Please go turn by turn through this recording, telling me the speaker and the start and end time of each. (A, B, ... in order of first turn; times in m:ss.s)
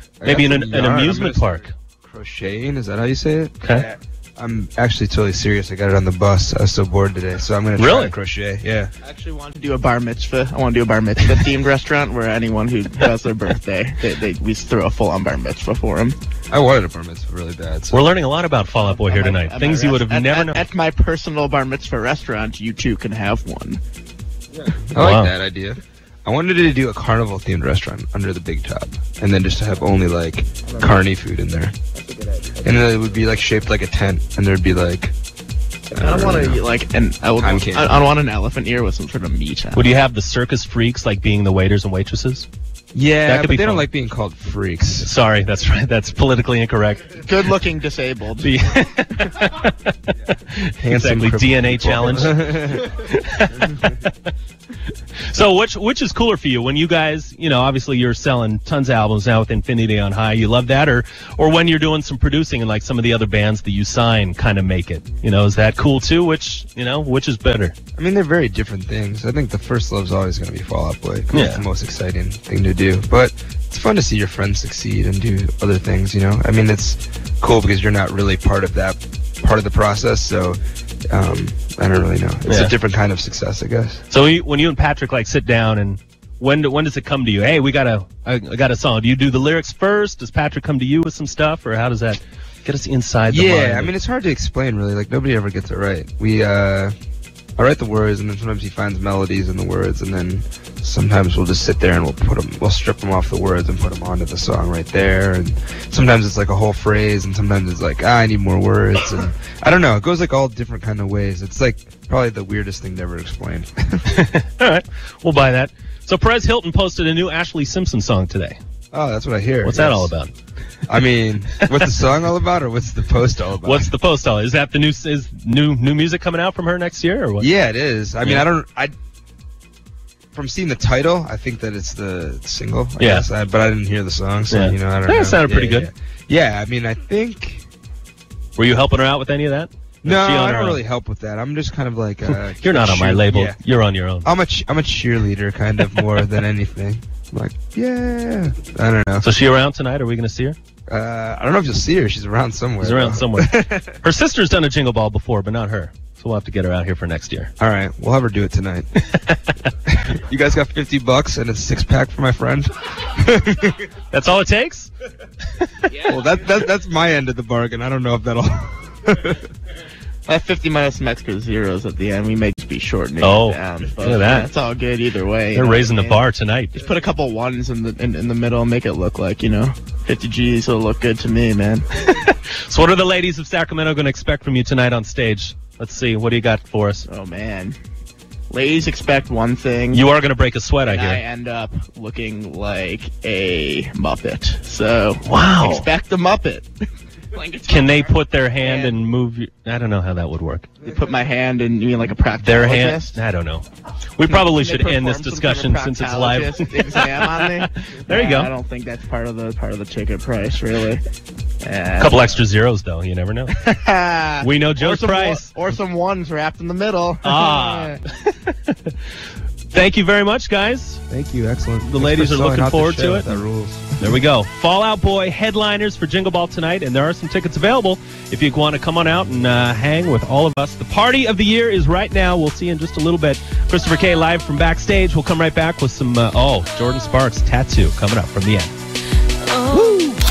0:00.2-0:08.9 A
0:00.2-0:01.8 B
0:03.6-0:03.9 B
0:07.8-0:08.2 B
0:09.0-0:16.2 C
0:16.5-0:18.0 A
0:17.9-0:20.6 B
0:18.7-0:23.8 C
0:24.6-0:31.7 A
0:25.0-0:25.3 B
0:30.7-0:31.1 C
0:32.0-0:32.8 C
0:32.6-0:35.1 A
0:35.9-0:39.9 C
0:35.9-0:36.6 A
0:37.4-0:38.0 A
0:39.8-0:42.5 B
0:42.9-0:45.1 A
0:43.2-0:43.9 B
0:45.0-0:47.3 B
0:47.2-0:48.6 C
0:48.4-0:49.9 B
0:50.5-0:54.3 B
0:50.8-0:52.9 A
0:55.3-1:07.8 B
1:08.0-1:20.6 A
1:11.3-1:11.7 B
1:21.1-1:24.0 A
1:22.5-1:22.7 B
1:24.1-1:33.9 B
1:33.3-1:36.9 A
1:37.6-1:54.1 A
1:54.1-1:58.6 B
1:58.9-2:00.1 A
1:59.6-2:00.3 B
2:00.9-2:03.9 A
2:03.6-2:07.5 B
2:07.4-2:08.9 A
2:08.2-2:08.5 B
2:10.3-2:17.7 A
2:13.0-2:13.3 B
2:14.5-2:15.9 B
2:18.6-2:20.8 B
2:20.0-2:23.6 A
2:22.3-2:24.3 B
2:24.2-2:29.3 A
2:25.8-2:26.3 B
2:29.2-2:30.6 B
2:30.9-2:34.0 A
2:32.8-2:37.5 B
2:37.6-2:38.9 A
2:39.1-2:39.5 B
2:39.8-2:43.8 A
2:44.1-2:44.9 B
2:45.6-2:46.0 B
2:45.9-2:49.4 A
2:50.3-3:01.8 C
2:53.2-2:54.5 B
2:55.5-2:56.7 B
3:02.0-3:07.1 B
3:07.1-3:07.8 C
3:08.5-3:10.0 C
3:09.9-3:11.2 B
3:10.8-3:16.7 C
3:15.2-3:15.9 B
3:17.3-3:19.0 C
3:17.7-3:20.7 B
3:20.8-3:23.2 C
3:22.4-3:28.5 B
3:24.2-3:31.0 C
3:31.6-3:32.4 C
3:32.0-3:33.5 B
3:33.5-3:38.0 C
3:34.4-3:35.5 B
3:37.2-3:39.0 B
3:39.7-3:41.0 B
3:41.1-3:44.2 A
3:41.8-3:43.4 B
3:44.0-3:58.7 B
3:59.7-4:00.2 B